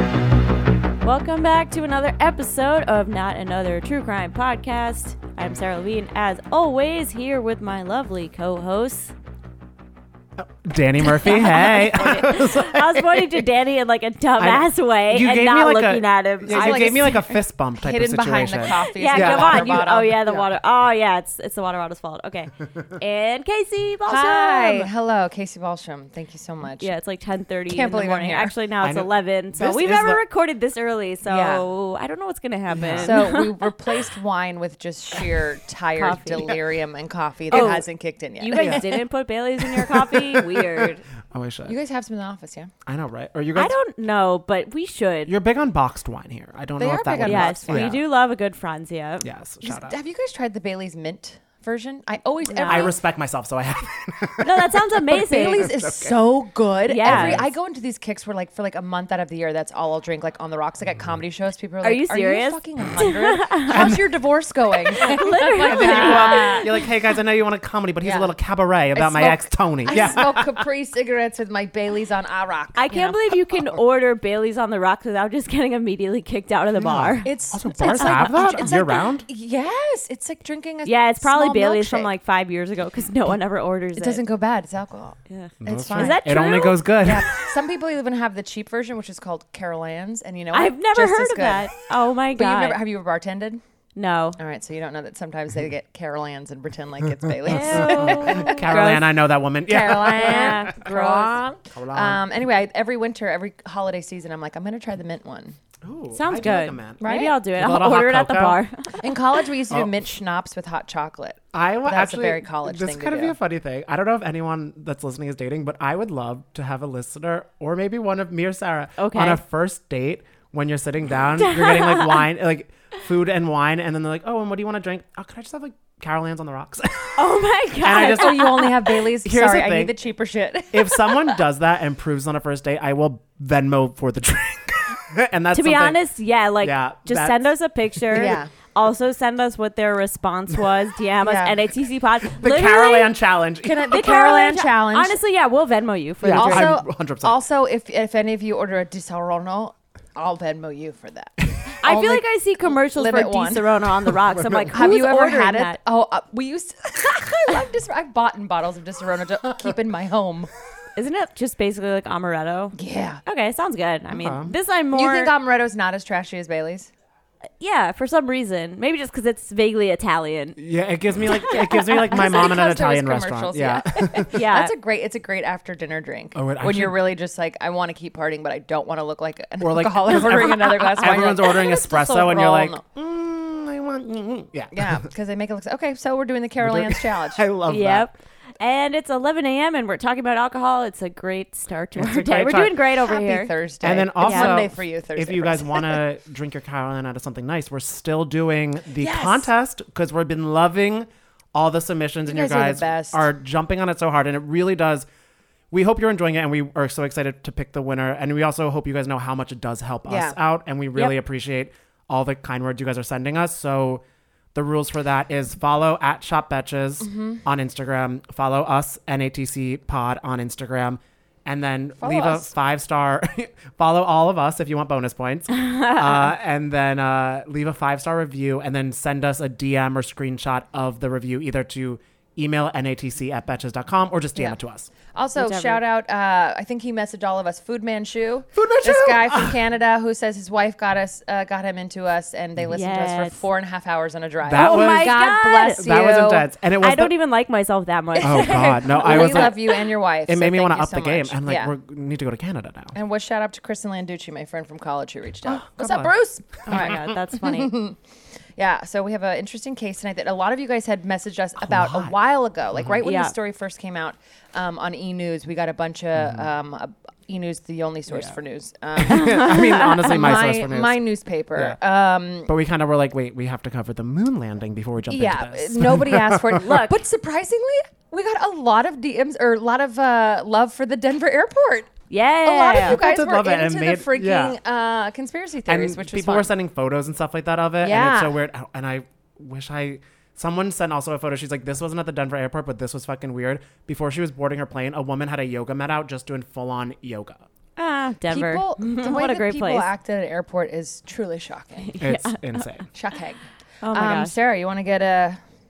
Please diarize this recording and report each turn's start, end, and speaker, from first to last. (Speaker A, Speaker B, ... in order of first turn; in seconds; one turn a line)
Speaker A: 1.0-9.1
Speaker B: 10.4-13.4
Speaker A: 11.1-17.2
Speaker B: 14.4-19.8
Speaker C: 16.4-20.5
Speaker A: 18.7-24.9
Speaker C: 24.1-26.9
Speaker A: 26.8-33.6
Speaker C: 27.7-28.5
Speaker B: 28.8-30.2
Speaker C: 31.2-31.6
Speaker B: 32.7-33.4
Speaker C: 32.9-39.0
Speaker A: 36.0-36.5
Speaker A: 37.5-37.9
Speaker A: 38.4-41.0
Speaker B: 38.5-38.9
Speaker B: 39.6-41.8
Speaker C: 41.7-42.7
Speaker B: 42.9-43.8
Speaker A: 43.5-45.3
Speaker B: 45.3-48.0
Speaker C: 46.8-48.0
Speaker A: 47.2-49.3
Speaker B: 49.2-50.0
Speaker C: 49.6-53.0
Speaker A: 52.5-52.9
Speaker B: 52.7-56.2
Speaker A: 54.4-55.7
Speaker C: 55.1-66.8
Speaker A: 56.9-57.4
Speaker B: 57.0-57.5
Speaker A: 61.8-63.9
Speaker B: 63.7-64.2
Speaker A: 64.9-66.7
Speaker B: 65.6-70.6
Speaker C: 68.0-68.3
Speaker C: 68.9-73.3
Speaker A: 72.8-78.8
Speaker B: 76.8-79.3
Speaker C: 77.2-82.1
Speaker A: 80.8-84.2
Speaker C: 84.0-86.5
Speaker A: 85.3-86.8
Speaker B: 85.6-87.5
Speaker C: 87.0-91.7
Speaker A: 90.5-92.8
Speaker C: 92.3-93.6
Speaker A: 94.0-94.4
Speaker C: 94.4-98.7
Speaker A: 97.4-99.1
Speaker B: 97.5-100.7
Speaker C: 99.7-105.6
Speaker A: 100.2-101.4
Speaker B: 101.7-102.3
Speaker B: 105.8-107.0
Speaker A: 106.1-109.2
Speaker C: 107.0-107.4
Speaker B: 107.5-108.6
Speaker C: 109.0-113.4
Speaker B: 111.5-127.3
Speaker A: 119.0-119.4
Speaker A: 121.4-122.2
Speaker A: 127.2-128.7
Speaker B: 127.8-129.9
Speaker C: 127.9-131.4
Speaker B: 130.7-136.0
Speaker A: 135.5-143.1
Speaker B: 136.6-138.4
Speaker C: 138.2-138.5
Speaker C: 141.2-141.6
Speaker B: 142.2-144.0
Speaker C: 143.6-145.2
Speaker A: 143.9-146.7
Speaker C: 146.2-153.7
Speaker B: 146.2-147.4
Speaker A: 151.8-155.8
Speaker B: 154.3-154.7
Speaker C: 154.7-160.5
Speaker A: 161.0-165.3
Speaker C: 162.8-163.2
Speaker B: 164.1-164.5
Speaker C: 164.9-166.9
Speaker A: 167.6-170.6
Speaker B: 170.6-174.3
Speaker A: 171.3-172.4
Speaker C: 171.5-182.8
Speaker A: 174.3-174.7
Speaker B: 176.3-177.1
Speaker B: 179.6-185.1
Speaker A: 180.7-181.2
Speaker C: 184.7-187.5
Speaker B: 186.6-188.1
Speaker A: 187.7-193.5
Speaker B: 191.9-192.8
Speaker C: 192.8-196.0
Speaker B: 193.8-205.1
Speaker A: 194.2-194.6
Speaker C: 199.0-199.5
Speaker C: 202.3-203.2
Speaker B: 205.7-214.0
Speaker C: 210.1-210.4
Speaker B: 214.5-234.9
Speaker C: 217.0-217.4
Speaker C: 222.0-222.5
Speaker A: 225.5-226.3
Speaker C: 234.3-246.5
Speaker A: 235.4-235.8
Speaker B: 238.6-239.6
Speaker A: 242.7-243.4
Speaker B: 244.4-247.2
Speaker A: 244.6-245.8
Speaker A: 246.8-249.4
Speaker C: 248.2-251.7
Speaker B: 248.2-252.9
Speaker C: 252.9-258.0
Speaker B: 255.5-256.1
Speaker A: 256.6-257.8
Speaker B: 256.7-257.1
Speaker C: 258.6-272.5
Speaker B: 261.6-262.1
Speaker B: 262.7-263.0
Speaker A: 263.0-263.3
Speaker B: 266.1-266.5
Speaker B: 268.1-268.4
Speaker B: 268.9-271.0
Speaker A: 269.1-270.2
Speaker B: 272.4-276.6
Speaker C: 275.1-286.5
Speaker A: 276.6-277.0
Speaker A: 282.1-283.0
Speaker B: 282.7-284.6
Speaker B: 285.7-297.4
Speaker C: 287.8-288.4
Speaker A: 297.8-299.9
Speaker C: 298.3-302.0
Speaker A: 301.9-302.7
Speaker B: 302.0-302.9
Speaker C: 302.9-303.4
Speaker A: 303.8-304.3
Speaker C: 303.9-305.4